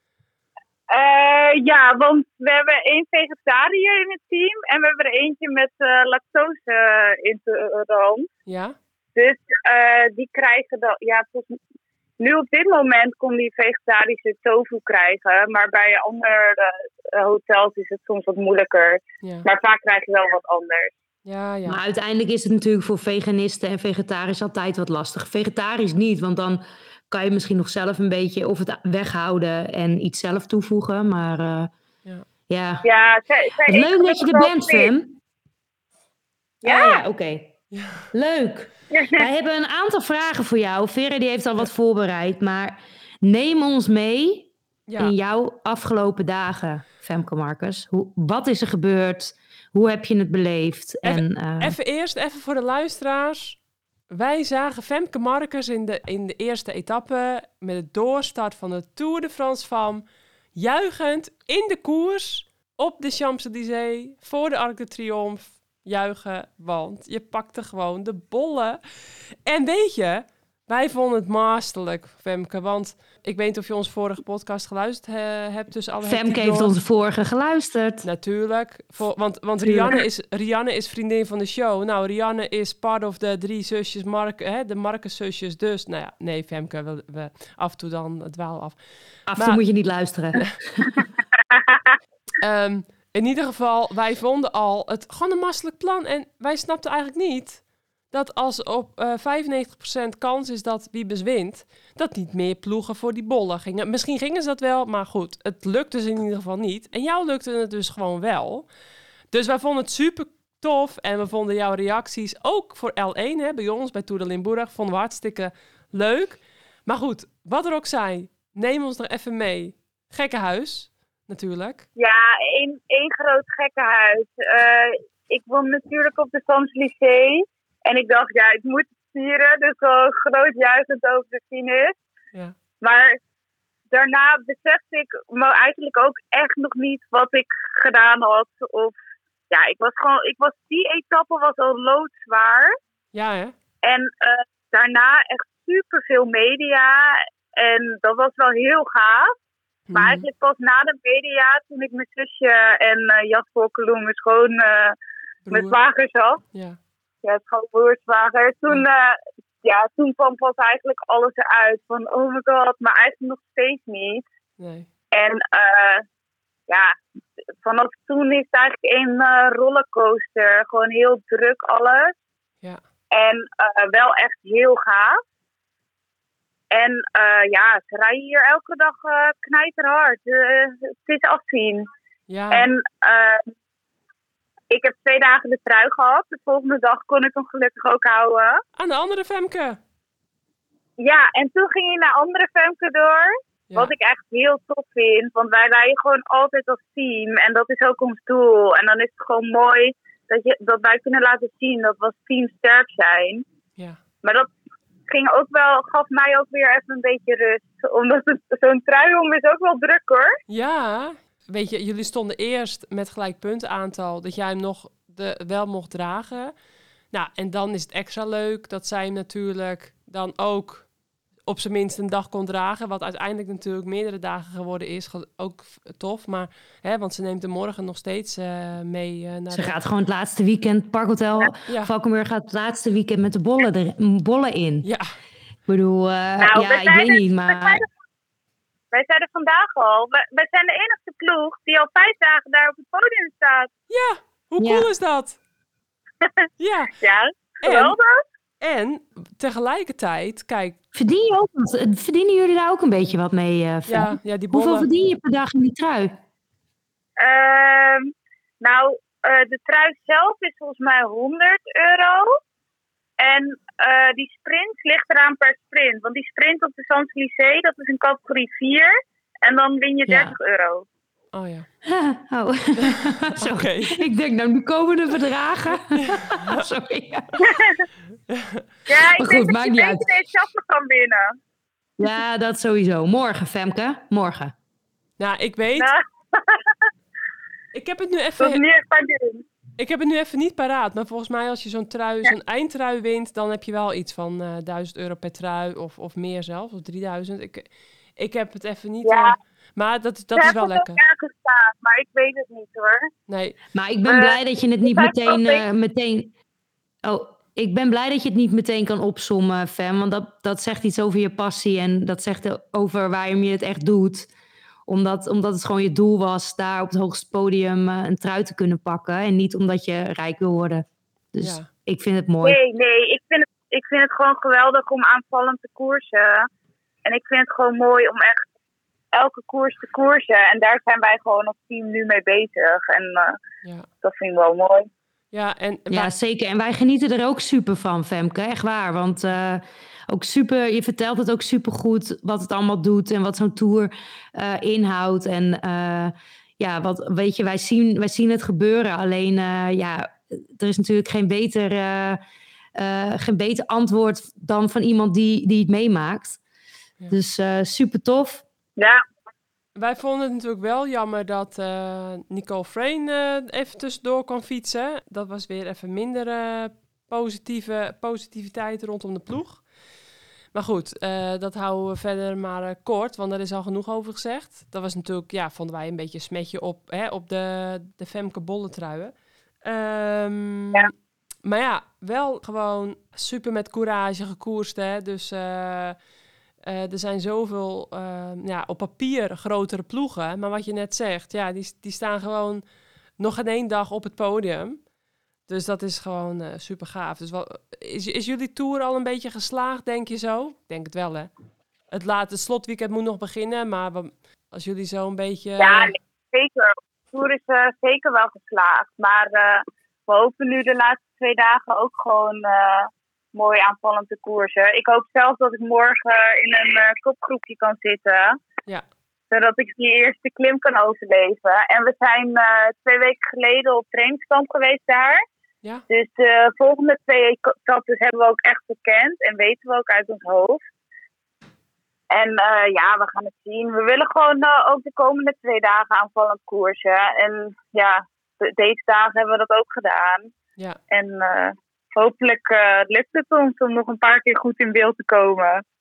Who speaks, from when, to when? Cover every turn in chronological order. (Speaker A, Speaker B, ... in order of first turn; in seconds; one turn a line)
Speaker A: 0.9-8.3
Speaker B: 8.5-8.8
Speaker A: 9.2-11.6
Speaker A: 12.2-20.9
Speaker B: 21.3-21.8
Speaker C: 21.7-31.7
Speaker C: 32.5-32.9
Speaker A: 32.8-34.9
Speaker C: 33.7-35.2
Speaker C: 36.6-37.5
Speaker A: 36.6-37.0
Speaker B: 37.7-38.1
Speaker C: 38.1-51.8
Speaker A: 38.9-39.3
Speaker B: 44.9-45.1
Speaker B: 51.0-53.6
Speaker B: 54.1-76.8
Speaker C: 76.1-78.1
Speaker B: 78.0-88.8
Speaker C: 79.6-80.0
Speaker C: 89.3-91.0
Speaker B: 89.3-89.6
Speaker B: 92.4-108.7
Speaker B: 109.3-121.9
Speaker A: 122.0-132.0
Speaker A: 132.8-133.2
Speaker A: 133.9-139.0
Speaker A: 139.5-142.8
Speaker B: 143.1-143.6
Speaker A: 143.8-149.3
Speaker B: 149.9-150.3
Speaker A: 149.9-155.0
Speaker B: 155.5-155.8
Speaker A: 155.5-156.4
Speaker B: 156.5-156.8
Speaker A: 157.2-164.3
Speaker B: 164.6-164.9
Speaker A: 165.1-166.1
Speaker A: 166.7-166.9
Speaker A: 167.6-172.2
Speaker A: 173.1-175.2
Speaker A: 176.7-181.9
Speaker B: 182.3-182.7
Speaker A: 182.5-183.5
Speaker A: 184.7-188.6
Speaker B: 188.8-189.8
Speaker A: 191.0-203.4
Speaker A: 204.2-204.5
Speaker A: 205.1-210.4
Speaker B: 210.5-216.5
Speaker B: 217.1-220.9
Speaker B: 221.5-229.8
Speaker C: 229.5-234.9
Speaker B: 234.8-235.1
Speaker C: 235.7-237.8
Speaker A: 236.4-237.9
Speaker A: 238.9-243.7
Speaker B: 243.9-245.4
Speaker C: 244.6-244.9
Speaker B: 246.6-246.9
Speaker A: 247.0-248.2
Speaker B: 247.6-248.0
Speaker B: 248.6-250.8
Speaker C: 250.9-256.2
Speaker B: 253.9-254.9
Speaker A: 257.2-262.4
Speaker A: 263.2-270.9
Speaker C: 270.1-270.4
Speaker B: 271.3-271.7
Speaker C: 271.9-277.5
Speaker B: 272.8-274.1
Speaker B: 275.9-276.6
Speaker A: 277.4-277.9
Speaker B: 278.3-278.6
Speaker A: 278.9-281.4
Speaker C: 279.0-280.1
Speaker C: 282.0-284.5
Speaker B: 285.2-285.9
Speaker A: 285.8-286.8
Speaker B: 287.7-288.6
Speaker A: 288.4-289.5
Speaker B: 289.8-301.0
Speaker A: 299.0-299.4
Speaker A: 300.4-303.1
Speaker B: 303.3-303.6
Speaker C: 303.7-306.3
Speaker A: 304.1-305.6
Speaker C: 307.0-314.3
Speaker C: 314.9-322.6
Speaker B: 321.4-321.7
Speaker A: 322.4-326.5
Speaker A: 327.1-328.4
Speaker A: 329.1-333.4
Speaker A: 334.0-334.9
Speaker B: 335.3-336.1
Speaker C: 335.9-352.2
Speaker C: 352.8-356.4
Speaker C: 357.1-358.4
Speaker A: 358.8-359.0
Speaker B: 359.8-369.6
Speaker B: 370.5-379.1
Speaker B: 379.6-380.9
Speaker B: 381.4-386.0
Speaker B: 386.6-392.6
Speaker B: 393.2-394.8
Speaker B: 395.5-401.3
Speaker B: 401.9-405.9
Speaker A: 405.6-418.4
Speaker A: 419.3-425.2
Speaker A: 425.9-430.6
Speaker A: 432.1-440.3
Speaker A: 440.9-445.6